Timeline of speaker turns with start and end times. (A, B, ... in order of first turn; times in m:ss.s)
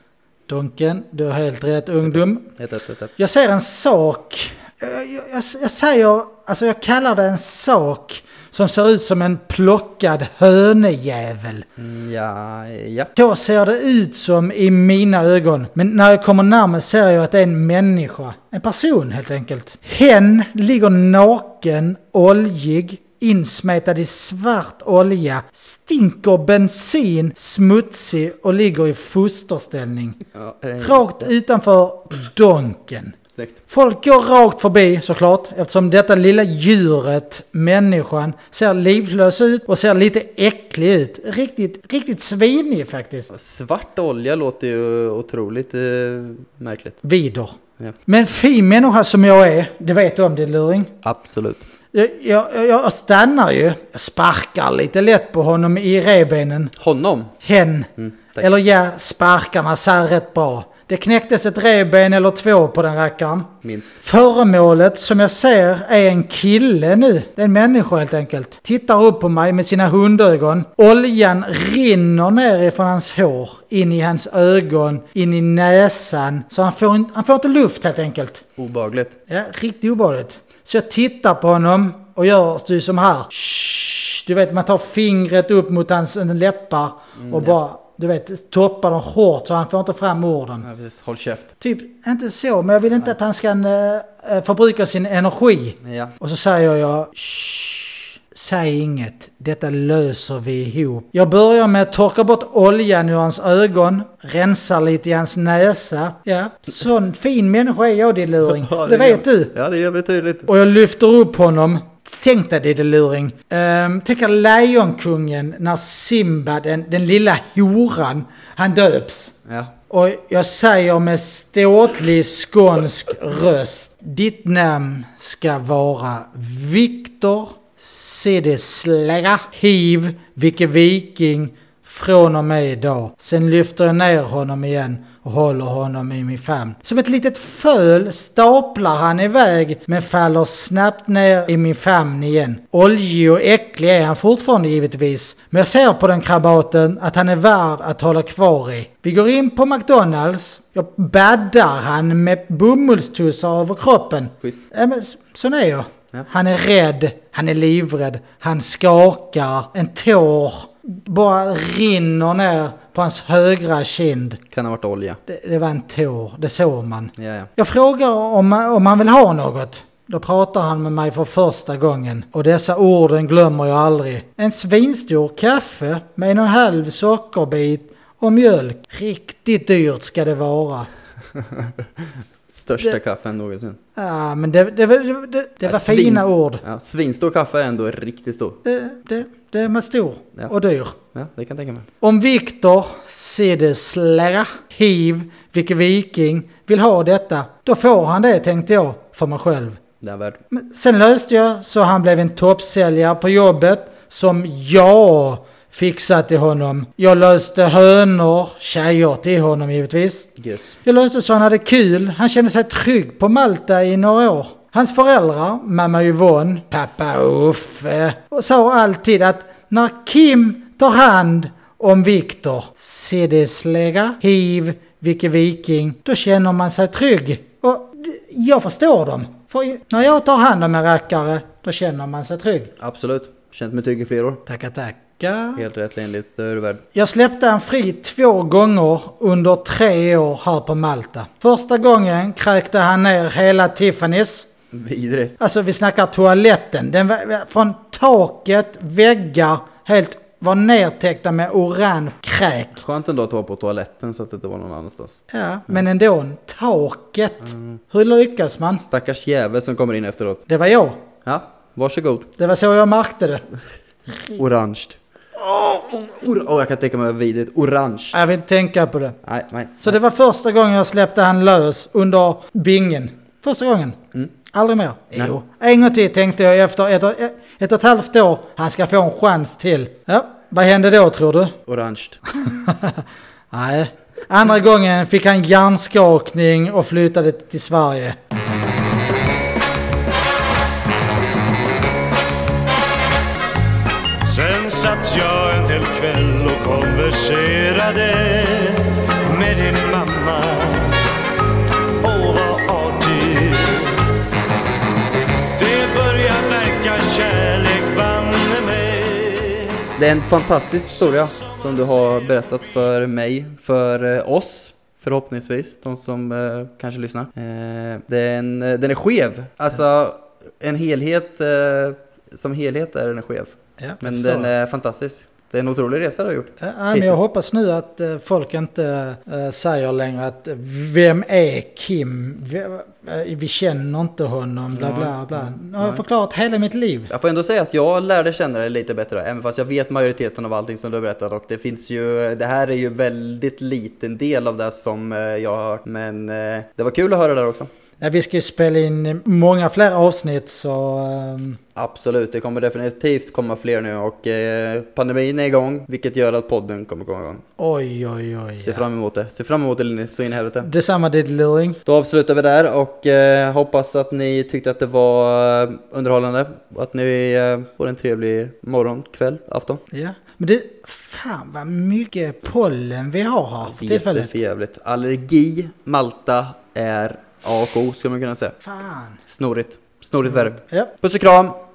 0:00.5-0:02.5 A
0:02.0-0:03.1 B
0:03.2-0:11.6 A
0:11.8-0:13.1 B
0:13.2-0:30.2 A
0:30.3-0:31.3 B
0:30.8-0:33.1 A
0:33.3-0:33.6 B
0:33.7-0:43.3 A
0:43.3-0:47.0 B
0:47.0-0:50.9 A
0:51.0-0:51.7 B
0:51.9-0:56.7 A
0:56.8-0:57.3 B
0:57.4-1:18.4 A
0:58.0-0:58.4 B
1:03.6-1:04.0 B
1:18.6-1:19.2 B
1:19.3-1:30.7 A
1:27.2-1:27.6 B
1:30.6-1:31.5 B
1:31.6-1:49.5 A
1:35.8-1:36.1 B
1:48.4-1:50.5 B
1:50.5-1:59.3 A
1:59.5-1:59.7 B
1:59.9-2:44.4 A
2:44.5-2:45.2 B
2:45.3-3:00.9 A
2:47.2-2:47.5 B
3:01.4-3:03.8 B
3:04.0-3:06.6 A
3:05.6-3:08.6 B
3:08.6-3:11.0 A
3:11.1-3:11.9 B
3:12.0-3:19.8 A
3:20.0-3:20.4 B
3:20.5-3:30.3 A
3:30.4-3:30.7 B
3:30.8-3:52.7 A
3:52.8-3:54.4 B
3:54.4-3:55.6 A
3:55.6-3:56.8 B
3:56.9-4:04.5 A
4:04.7-4:05.3 B
4:05.4-4:12.8 A
4:12.8-4:15.8 B
4:15.3-4:18.8 A
4:17.4-4:17.8 B
4:18.8-4:20.4 B
4:20.5-4:21.0 A
4:21.2-4:22.3 B
4:22.4-4:23.4 A
4:24.3-4:25.0 B
4:25.5-4:25.7 A
4:25.8-4:28.2 B
4:28.1-4:29.2 A
4:29.2-4:30.0 B
4:29.8-4:41.6 A
4:41.6-4:42.2 B
4:42.4-4:48.2 A
4:54.2-5:01.0 C
5:02.0-5:04.0 C
5:05.6-5:09.8 C
5:10.0-5:27.2 B
5:11.0-5:12.5 C
5:23.8-5:24.5 A
5:26.6-5:37.1 A
5:34.7-5:36.0 B
5:37.1-5:47.7 B
5:48.0-5:51.6 A
5:51.8-5:57.4 B
5:57.6-5:58.8 A
5:58.6-6:00.7 B
6:00.6-6:01.8 A
6:01.8-6:09.8 B
6:09.9-6:14.3 A
6:13.6-6:18.6 B
6:18.6-6:19.2 A
6:19.3-6:21.6 B
6:20.2-6:20.9 A